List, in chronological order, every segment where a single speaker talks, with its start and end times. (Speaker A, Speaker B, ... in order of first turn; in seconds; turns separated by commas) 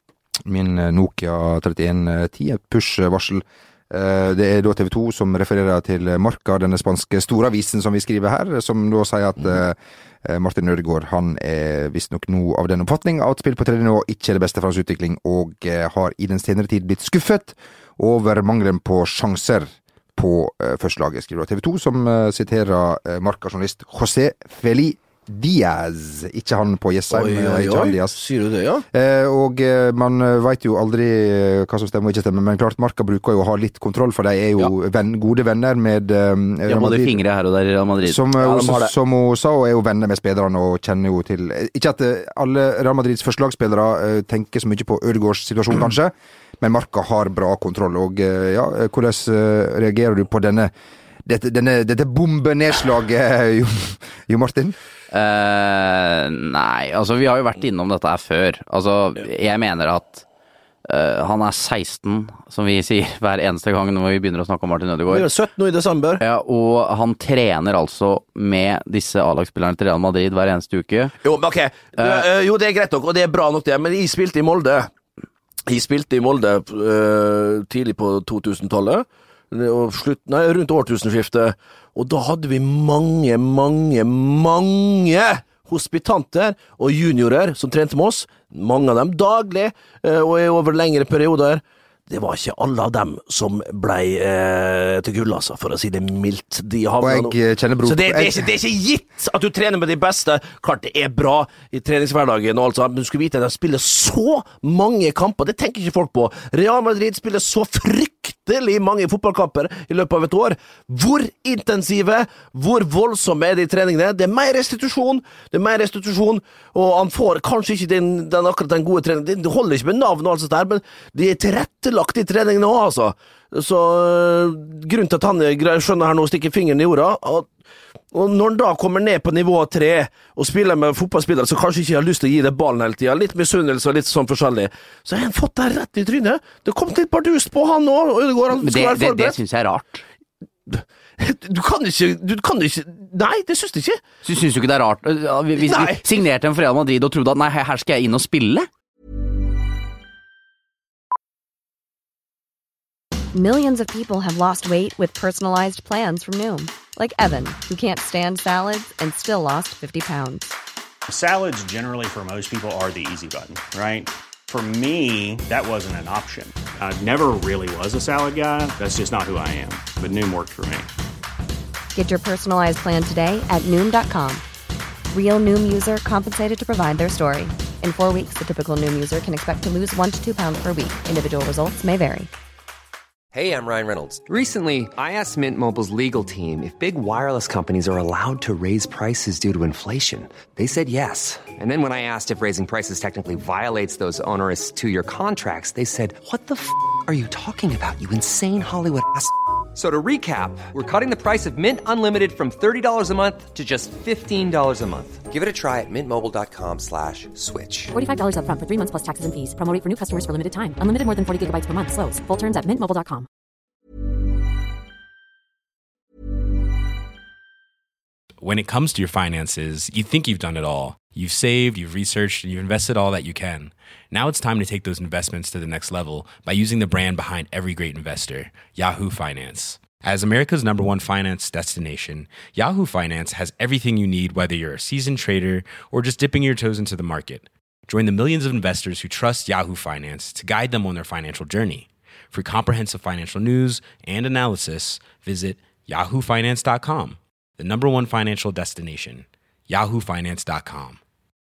Speaker A: 0.5-28.2, Speaker B: 27.1-28.8, Speaker A: 28.9-37.2, Speaker C: 36.6-38.2, Speaker A: 38.0-50.7, Speaker B: 38.4-38.9, Speaker A: 51.2-54.8, Speaker C: 55.1-60.2, Speaker C: 60.9-65.3, Speaker B: 65.1-66.2, Speaker C: 66.2-71.1, Speaker B: 71.2-74.9, Speaker C: 72.0-72.2, Speaker B: 75.7-127.5, Speaker A: 97.0-98.5, Speaker B: 128.1-139.4, Speaker C: 138.6-140.0, Speaker B: 140.7-144.0, Speaker C: 144.2-148.7, Speaker B: 145.6-146.0, Speaker D: 153.3-160.5, Speaker E: 161.1-170.9, Speaker D: 171.9-174.4, Speaker D: 175.1-182.3, Speaker F: 183.3-207.9, Speaker G: 207.9-213.3, Speaker H: 218.4-251.0